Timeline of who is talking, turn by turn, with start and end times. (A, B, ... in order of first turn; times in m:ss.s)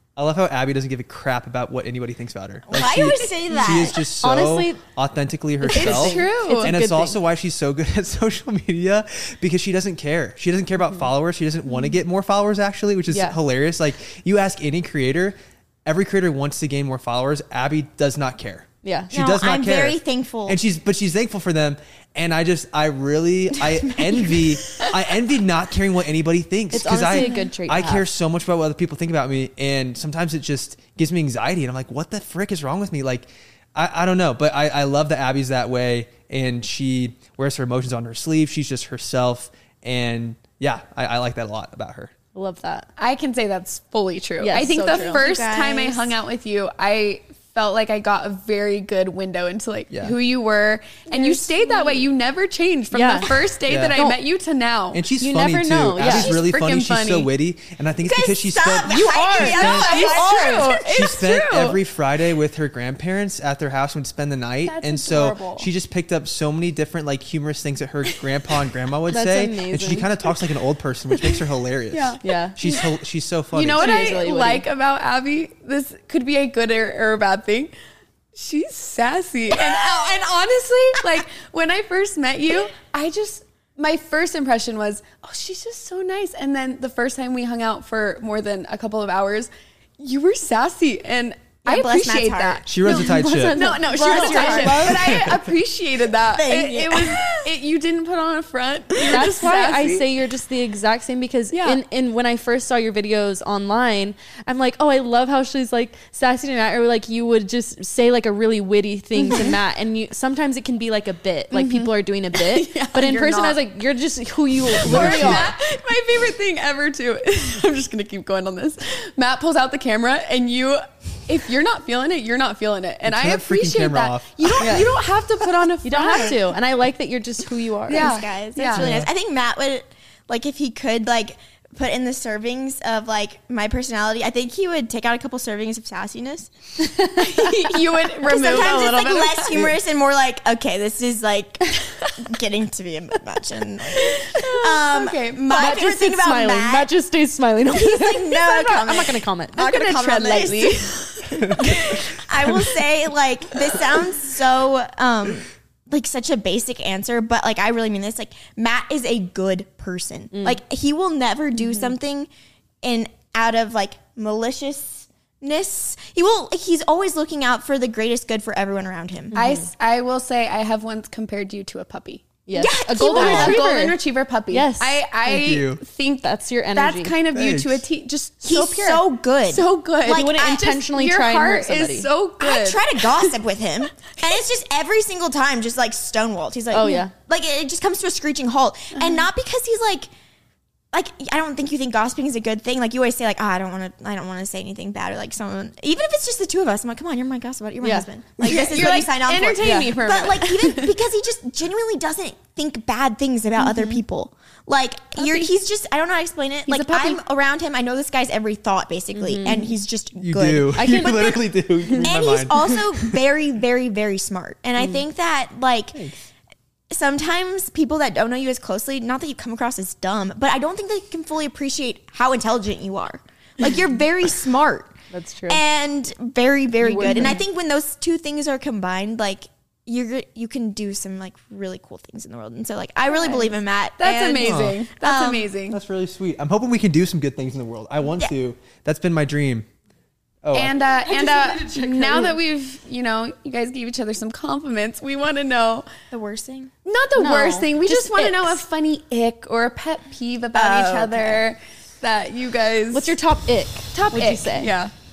0:00.2-0:42.1 A
0:02.7-0:04.0 B
0:04.2-0:04.8 C
0:05.6-0:07.1 C
0:05.7-0:06.7 D
0:13.1-0:13.4 C
0:18.8-0:19.1 C
0:19.1-0:20.6 B
0:26.7-0:28.1 C
0:27.0-0:27.5 D
0:42.3-0:42.9 C
0:43.0-0:55.0 D
0:44.4-0:45.2 C
0:44.8-0:46.1 B
0:49.9-0:50.2 A
0:51.1-0:52.0 B
0:52.9-0:53.3 C
0:53.7-0:54.0 A
0:54.9-1:00.1 A
0:55.2-0:56.4 C
0:56.0-0:57.3 D
0:58.0-1:00.9 B
0:58.9-1:00.3 C
0:59.0-1:01.8 D
1:00.7-1:14.2 A
1:04.6-1:05.7 D
1:09.1-1:10.1 C
1:11.9-1:12.8 D
1:12.2-1:12.6 C
1:13.5-1:17.7 D
1:13.8-1:14.6 C
1:18.4-1:40.1 D
1:31.7-1:32.6 B
1:32.7-1:33.6 A
1:32.8-1:34.9 C
1:33.9-1:35.2 B
1:34.9-1:35.4 A
1:36.3-1:37.5 B
1:39.1-1:55.5 C
1:41.5-1:41.8 D
1:49.2-1:49.5 D
1:51.5-1:53.6 D
1:54.7-2:06.4 D
1:54.8-1:55.6 A
2:03.0-2:05.0 A
2:04.6-2:04.9 C
2:05.8-2:08.1 C
2:07.9-2:16.5 B
2:07.9-2:08.9 D
2:08.7-2:09.1 A
2:17.1-2:19.7 D
2:18.2-2:26.9 B
2:24.0-2:25.4 D
2:25.5-2:29.6 C
2:27.7-2:42.3 B
2:29.6-2:32.1 D
2:31.4-2:31.7 A
2:40.3-2:40.6 C
2:41.6-2:41.9 D
2:42.8-2:49.3 B
2:49.3-2:49.7 C
2:49.3-2:52.3 D
2:52.5-2:54.0 C
2:52.6-2:53.6 B
2:53.0-3:03.4 D
2:54.5-2:55.0 C
2:55.3-2:55.8 A
2:56.2-2:57.1 C
2:57.3-2:57.8 A
2:58.4-3:00.7 B
3:00.1-3:02.1 C
3:02.4-3:10.1 B
3:06.7-3:07.1 C
3:10.9-3:31.4 B
3:18.4-3:21.0 D
3:19.6-3:20.0 C
3:23.6-3:24.0 D
3:25.2-3:25.5 D
3:26.7-3:27.2 D
3:29.1-3:29.7 C
3:30.2-3:33.1 A
3:30.7-3:31.3 C
3:32.0-3:36.1 B
3:36.9-3:44.9 B
3:45.1-3:45.6 C
3:45.5-3:55.5 B
3:46.8-3:47.4 C
3:47.0-3:47.4 D
3:53.1-3:55.8 D
3:54.4-3:54.8 A
3:55.7-3:59.7 A
4:00.4-4:00.7 A
4:00.5-4:05.9 D
4:01.1-4:02.4 C
4:06.1-4:06.7 B
4:06.8-4:13.1 D
4:07.2-4:08.6 C
4:10.6-4:11.4 B
4:12.9-4:14.7 C
4:13.9-4:14.9 D